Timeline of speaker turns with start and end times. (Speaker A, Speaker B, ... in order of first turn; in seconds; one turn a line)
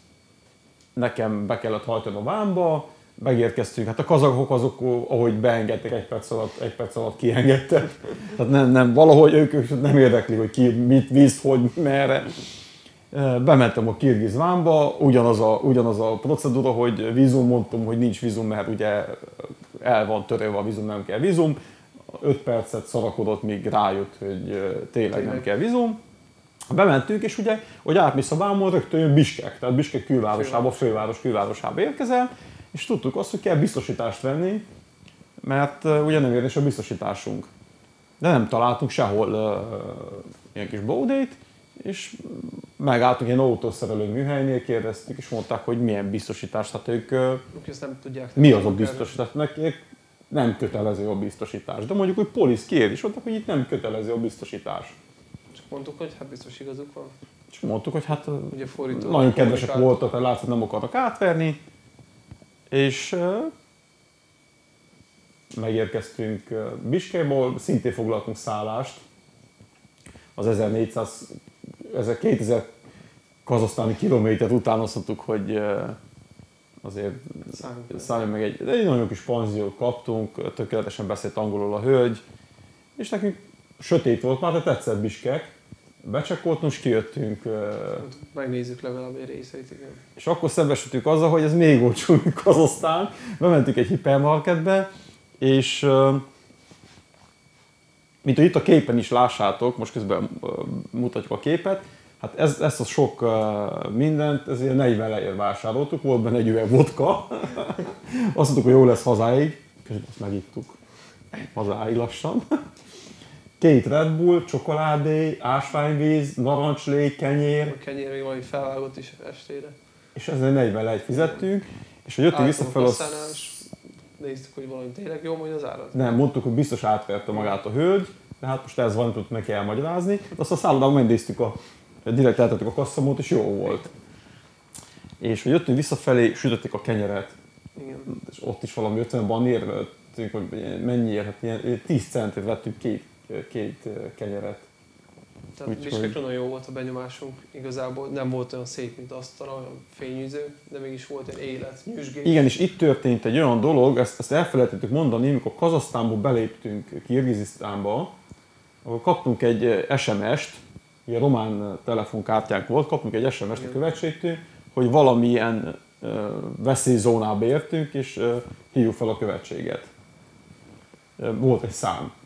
Speaker A: 0.9-12.3
Speaker A: 13.1-26.0
Speaker B: 25.1-25.5
Speaker A: 26.7-34.7
Speaker B: 30.3-30.9
Speaker A: 35.4-37.5
Speaker A: 38.2-47.4
Speaker B: 47.5-49.1
Speaker A: 48.4-55.0
Speaker B: 55.5-57.1
Speaker A: 57.5-61.6
Speaker B: 58.5-60.0
Speaker A: 62.7-63.5
Speaker A: 65.5-69.0
Speaker A: 70.3-72.7
Speaker A: 73.4-76.0
Speaker A: 76.8-82.2
Speaker B: 77.5-78.2
Speaker A: 83.0-88.1
Speaker B: 88.0-90.0
Speaker A: 90.2-94.9
Speaker A: 95.4-96.2
Speaker A: 98.2-110.8
Speaker A: 111.4-112.6
Speaker A: 113.6-117.7
Speaker B: 117.6-119.8
Speaker A: 120.1-123.6
Speaker B: 121.1-121.4
Speaker B: 122.3-123.6
Speaker B: 124.2-126.2
Speaker A: 125.9-133.9
Speaker A: 135.2-137.3
Speaker B: 137.7-138.1
Speaker A: 138.1-144.7
Speaker B: 145.6-152.5
Speaker A: 145.7-146.2
Speaker A: 152.2-158.1
Speaker A: 158.8-169.9
Speaker A: 171.2-172.1